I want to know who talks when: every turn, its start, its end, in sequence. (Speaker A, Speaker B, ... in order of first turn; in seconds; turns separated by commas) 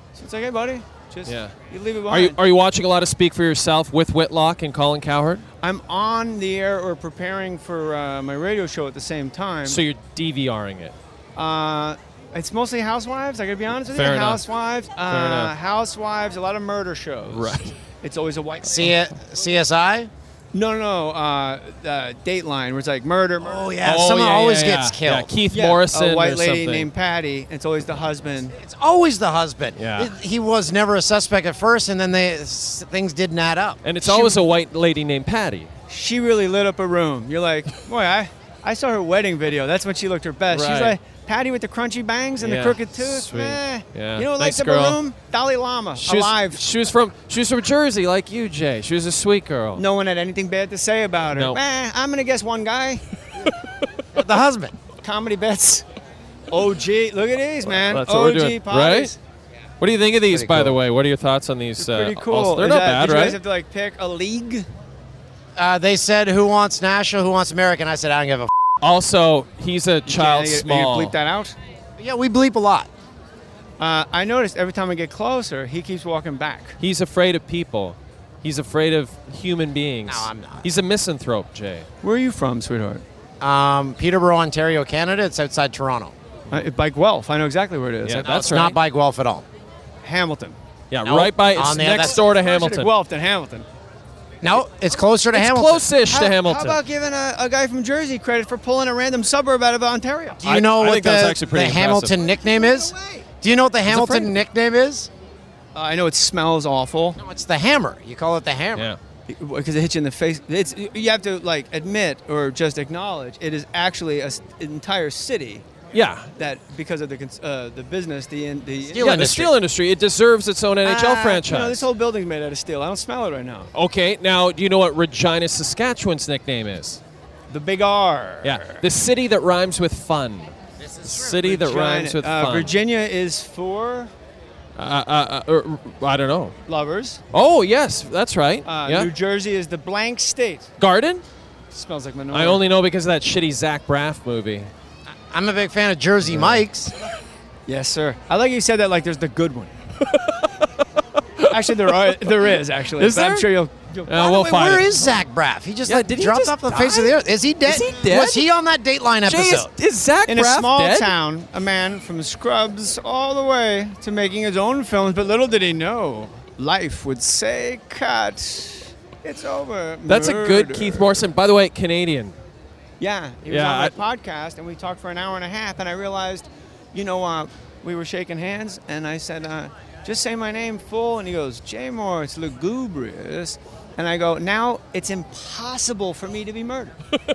Speaker A: 0.1-2.4, Speaker B: 1.2-1.5, Speaker B: 2.1-5.5, Speaker A: 5.6-9.8, Speaker B: 9.6-10.9, Speaker A: 11.3-19.0, Speaker B: 13.9-14.4, Speaker B: 15.1-15.5, Speaker B: 17.3-17.7, Speaker C: 18.6-20.1, Speaker A: 20.5-23.7, Speaker C: 23.4-25.3, Speaker B: 23.8-26.9, Speaker A: 25.5-28.5, Speaker C: 28.5-34.3, Speaker B: 29.8-30.1, Speaker B: 33.8-35.7, Speaker A: 34.0-34.3, Speaker A: 35.9-46.6, Speaker B: 40.5-41.0, Speaker B: 42.4-45.0, Speaker B: 46.0-49.8, Speaker A: 49.8-53.0, Speaker B: 51.3-51.6, Speaker C: 54.1-54.8, Speaker A: 55.0-55.8, Speaker A: 56.5-59.2, Speaker B: 57.6-59.1, Speaker B: 59.8-63.4, Speaker C: 60.3-60.8, Speaker A: 61.8-64.7, Speaker C: 65.5-68.5, Speaker B: 68.8-71.1, Speaker A: 70.0-71.5, Speaker C: 72.0-72.9, Speaker A: 73.8-76.8, Speaker B: 76.8-81.9, Speaker C: 80.1-80.7, Speaker A: 82.0-83.0, Speaker C: 83.4-86.2, Speaker A: 86.5-88.6, Speaker B: 88.0-88.8, Speaker C: 88.2-89.5, Speaker A: 90.0-90.6, Speaker B: 90.9-92.9, Speaker C: 91.0-92.2, Speaker A: 91.8-93.7, Speaker C: 94.4-95.8, Speaker B: 95.3-96.8, Speaker A: 96.0-100.4, Speaker C: 100.4-105.1, Speaker B: 100.4-102.2, Speaker A: 102.2-103.3, Speaker B: 103.9-104.3, Speaker A: 105.7-107.2, Speaker C: 107.2-108.9, Speaker A: 109.3-115.7, Speaker B: 115.9-116.3, Speaker A: 116.3-119.4, Speaker C: 118.8-119.5, Speaker B: 119.0-121.8, Speaker A: 120.8-123.7, Speaker B: 123.7-127.0, Speaker A: 127.5-128.8, Speaker B: 128.4-132.7, Speaker C: 130.8-131.6, Speaker A: 131.4-134.1, Speaker B: 134.8-136.5, Speaker A: 136.7-137.2, Speaker B: 137.3-139.1, Speaker A: 138.6-140.7, Speaker B: 140.8-141.2, Speaker A: 141.7-142.6, Speaker B: 142.3-144.7, Speaker C: 145.3-146.9, Speaker A: 147.7-149.7, Speaker B: 150.1-150.5, Speaker B: 151.4-153.5, Speaker A: 151.5-154.2, Speaker B: 154.1-155.2, Speaker C: 154.1-159.7, Speaker B: 155.8-158.5, Speaker B: 159.2-161.1, Speaker A: 160.3-171.2, Speaker B: 170.1-172.3, Speaker A: 173.0-186.9, Speaker B: 173.5-173.9